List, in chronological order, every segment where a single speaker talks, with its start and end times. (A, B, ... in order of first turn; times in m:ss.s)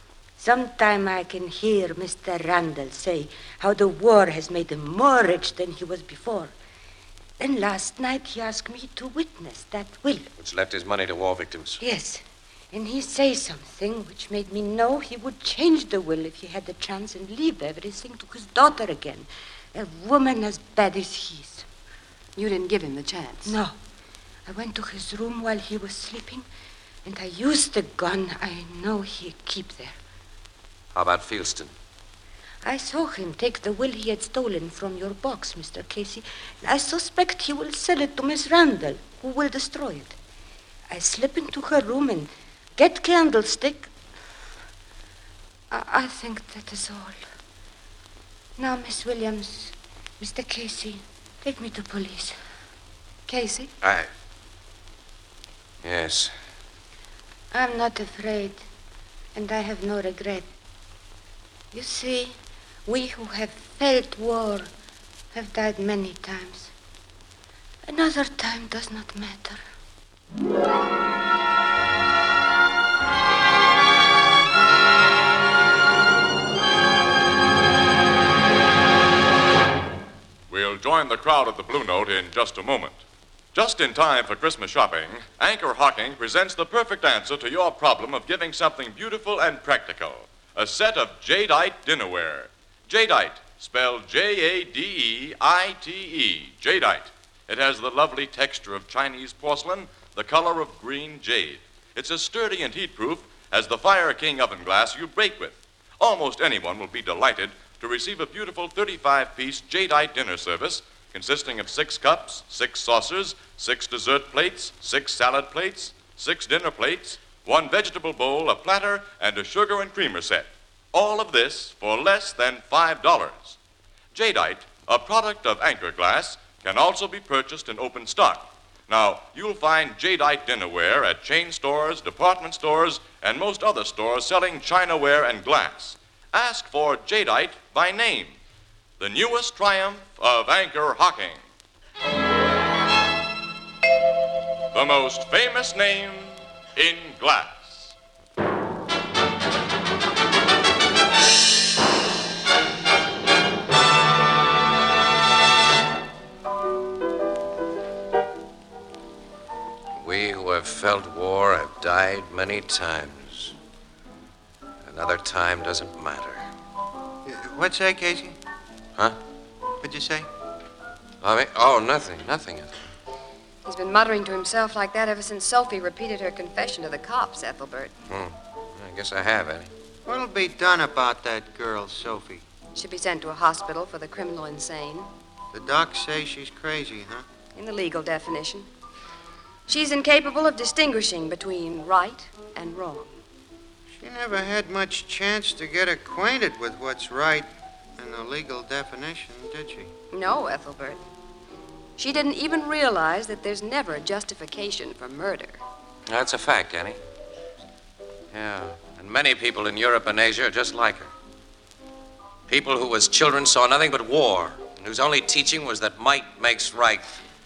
0:00.4-0:06.5 A
0:07.4-0:10.3 A
0:10.4-0:11.8 B
0:11.8-0:21.6 A
0:22.4-0:23.6 C
0:23.4-0:23.7 A
0:24.4-0:26.4 A
0:27.0-0:30.0 A
0:30.9-0:31.7 B
0:32.6-0:40.2 A
0:40.9-0:43.9 A
0:45.7-0:47.2 A
0:48.6-0:52.4 A
0:53.3-0:53.7 A
0:53.3-0:53.7 C
0:53.8-0:54.1 B
0:55.8-0:56.3 B
0:57.5-0:58.6 A
0:59.3-1:00.5 A
1:01.7-1:04.7 A
1:05.3-1:06.7 A
1:07.8-1:09.6 A
1:20.5-1:23.0 D
1:23.5-2:03.6 D
2:04.1-2:18.4 D
2:19.0-2:21.4 D
2:24.7-2:27.9 D
2:40.0-2:43.5 B
2:44.8-2:46.5 B
2:47.2-2:48.4 E
2:49.8-2:50.3 E
2:51.2-2:52.8 B
2:53.6-2:57.9 C
2:58.1-2:59.7 B
3:00.1-3:02.4 E
3:02.7-3:05.1 C
3:05.5-3:07.2 E
3:07.5-3:08.7 C
3:09.7-3:13.2 C
3:14.0-3:19.9 E
3:20.1-3:21.0 C
3:22.0-3:25.6 C
3:26.1-3:27.0 B
3:28.3-3:31.1 B
3:32.5-3:37.2 B